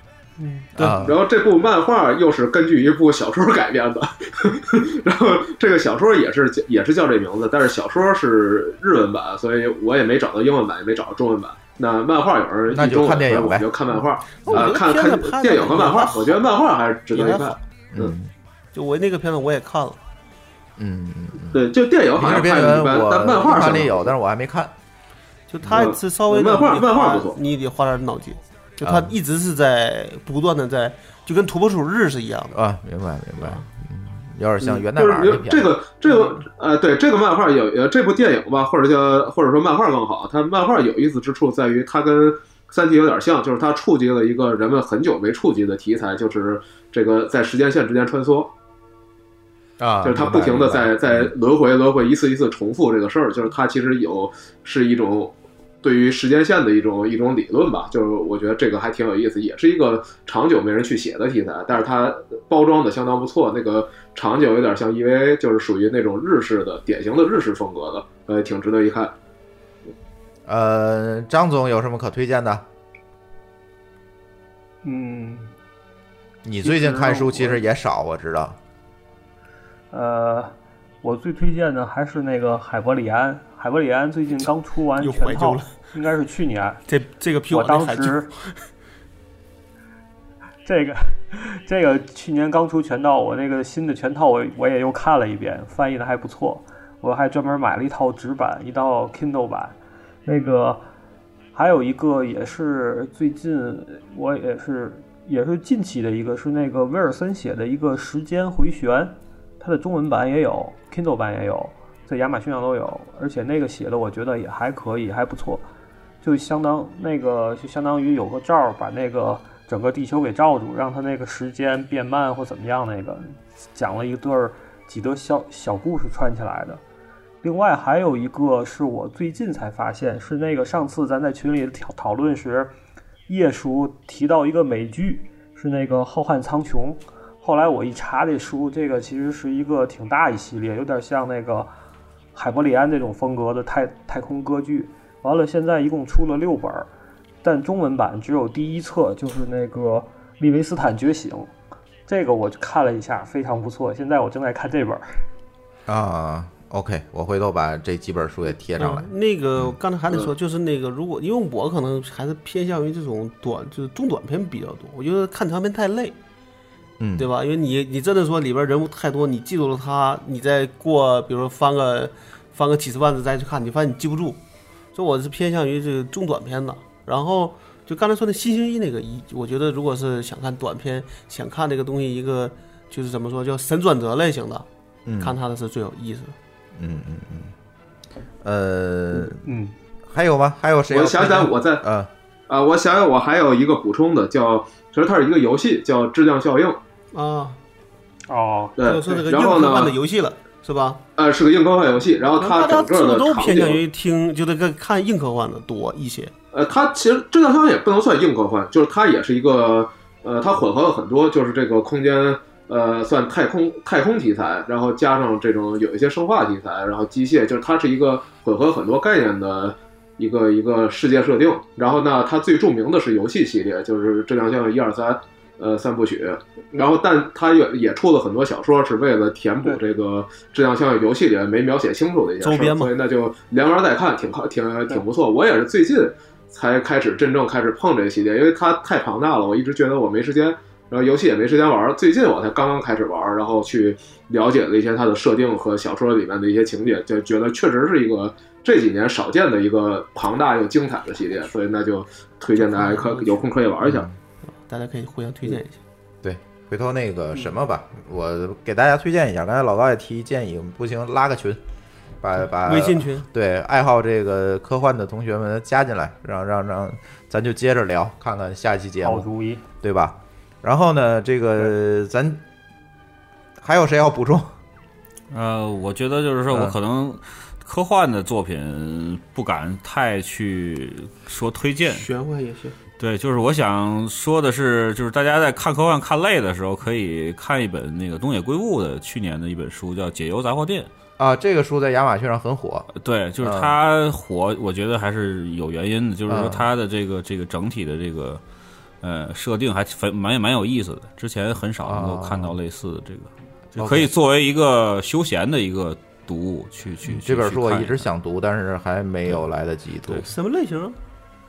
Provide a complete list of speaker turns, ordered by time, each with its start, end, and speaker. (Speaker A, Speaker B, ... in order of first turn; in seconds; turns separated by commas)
Speaker A: 0.4-1.0, Speaker B: 0.8-1.2, Speaker C: 1.0-18.1, Speaker B: 12.7-13.7, Speaker A: 14.5-16.5, Speaker A: 17.1-17.6, Speaker B: 17.9-18.3, Speaker A: 18.7-20.0, Speaker B: 20.8-24.7, Speaker C: 21.5-24.1, Speaker A: 25.5-32.6, Speaker C: 25.7-27.4, Speaker B: 28.8-29.1, Speaker B: 32.5-35.8, Speaker A: 33.4-33.6, Speaker C: 34.6-48.5, Speaker B: 49.8-51.3, Speaker C: 50.0-69.1, Speaker B: 70.5-72.6, Speaker D: 74.8-75.5, Speaker B: 76.4-78.6, Speaker D: 76.6-77.6, Speaker D: 79.9-86.8, Speaker A: 85.0-85.7, Speaker A: 86.9-88.3, Speaker D: 87.5-88.3, Speaker D: 90.7-100.8, Speaker D: 101.5-115.7, Speaker D: 116.2-126.8, Speaker D: 127.4-132.7, Speaker D: 133.3-141.7, Speaker D: 142.3-146.9, Speaker D: 147.4-151.5, Speaker D: 152.1-155.1, Speaker B: 155.9-159.8, Speaker A: 158.8-166.2, Speaker B: 167.0-167.3, Speaker A: 167.2-174.4, Speaker A: 174.9-184.7, Speaker B: 185.1-185.4, Speaker A: 185.2-186.3, Speaker B: 186.8-187.5, Speaker B: 188.4-189.4, Speaker D: 189.3-189.7, Speaker B: 190.1-192.1, Speaker C: 190.9-191.8, Speaker C: 192.5-196.8, Speaker A: 197.1-197.6, Speaker D: 198.3-198.8, Speaker C: 198.8-200.0, Speaker A: 198.8-201.0, Speaker C: 201.2-203.8, Speaker A: 202.4-206.3, Speaker C: 206.5-254.1, Speaker A: 232.4-232.9, Speaker A: 252.6-253.5, Speaker B: 253.8-254.2, Speaker A: 254.7-255.8, Speaker B: 256.2-261.6, Speaker B: 262.2-269.3, Speaker A: 262.4-263.3, Speaker D: 269.0-269.6, Speaker B: 269.8-272.4, Speaker B: 273.6-274.5, Speaker E: 275.3-282.1, Speaker B: 276.5-276.8, Speaker A: 281.9-282.8, Speaker E: 283.0-290.9, Speaker B: 291.2-292.9, Speaker E: 292.9-298.4, Speaker B: 293.4-293.8, Speaker B: 296.3-296.7, Speaker E: 299.0-308.1, Speaker B: 301.8-302.6, Speaker B: 303.8-304.1, Speaker B: 307.1-310.3, Speaker A: 310.2-311.0